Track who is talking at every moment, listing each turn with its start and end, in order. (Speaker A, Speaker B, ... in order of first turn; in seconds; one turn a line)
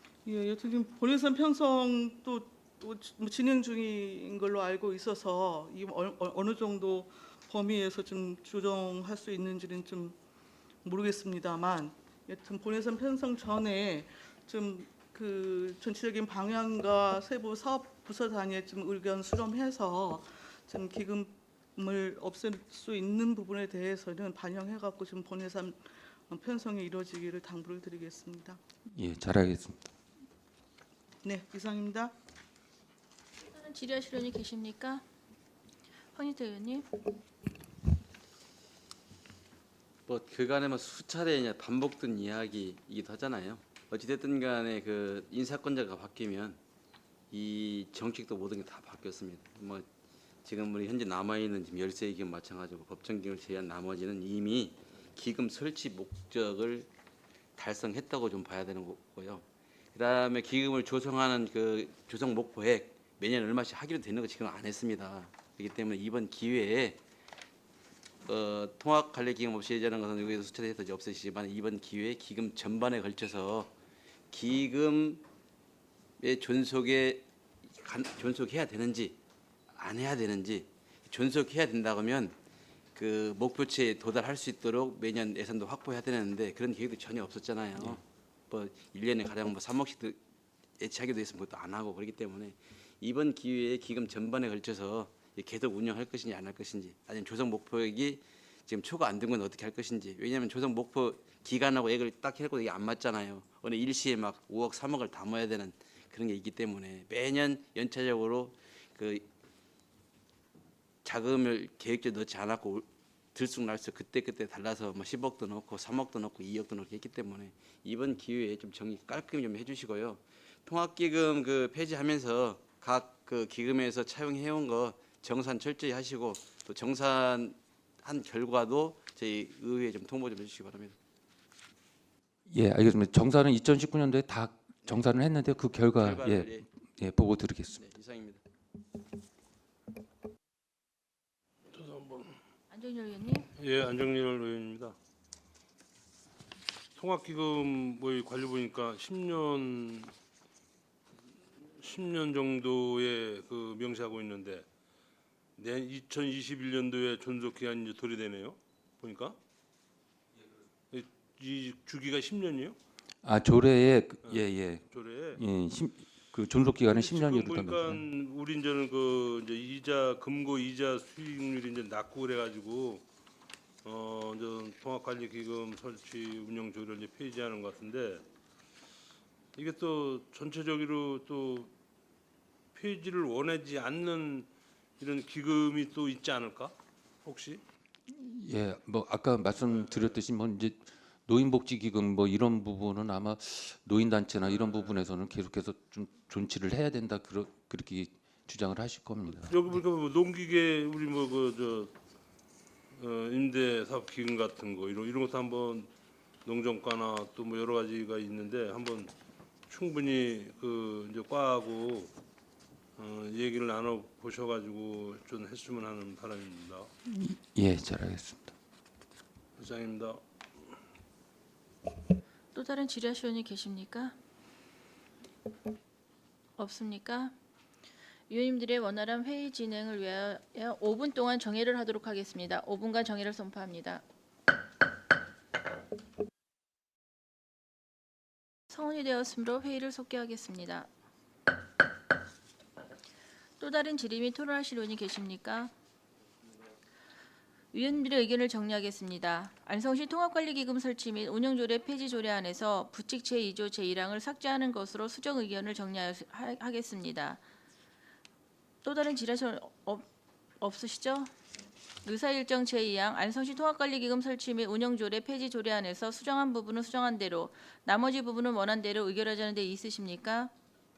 Speaker A: 0.2-10.2
Speaker A: 10.8-28.6
Speaker B: 28.9-29.8
Speaker A: 31.2-32.1
Speaker C: 33.5-35.0
Speaker C: 36.1-36.9
Speaker D: 40.1-46.5
Speaker D: 47.3-49.8
Speaker D: 50.4-56.9
Speaker D: 57.6-59.4
Speaker D: 59.9-67.0
Speaker D: 68.3-73.7
Speaker D: 74.3-75.2
Speaker D: 76.2-77.2
Speaker D: 77.8-79.1
Speaker D: 79.8-82.3
Speaker D: 83.0-90.2
Speaker D: 90.8-109.2
Speaker D: 111.0-112.8
Speaker D: 113.3-130.9
Speaker B: 132.5-137.8
Speaker D: 136.0-136.6
Speaker D: 137.9-138.4
Speaker E: 141.7-142.3
Speaker C: 142.7-143.4
Speaker E: 143.5-144.9
Speaker E: 146.9-150.1
Speaker E: 151.8-154.7
Speaker E: 155.6-159.4
Speaker E: 160.9-162.8
Speaker B: 163.2-168.0
Speaker E: 164.2-165.4
Speaker E: 166.9-173.0
Speaker E: 173.8-178.2
Speaker E: 179.5-181.7
Speaker E: 182.7-184.5
Speaker E: 185.0-187.6
Speaker B: 188.1-199.6
Speaker E: 189.7-190.1
Speaker E: 199.3-201.9
Speaker E: 202.9-205.9
Speaker E: 206.4-209.1
Speaker E: 209.7-212.1
Speaker E: 213.0-216.9
Speaker B: 217.0-218.5
Speaker E: 219.6-220.2
Speaker C: 222.5-224.1
Speaker C: 226.6-227.3
Speaker C: 228.3-234.0
Speaker C: 238.7-240.9
Speaker C: 243.6-245.7
Speaker C: 247.7-257.4
Speaker C: 258.8-260.1
Speaker C: 260.6-261.3
Speaker C: 262.0-270.5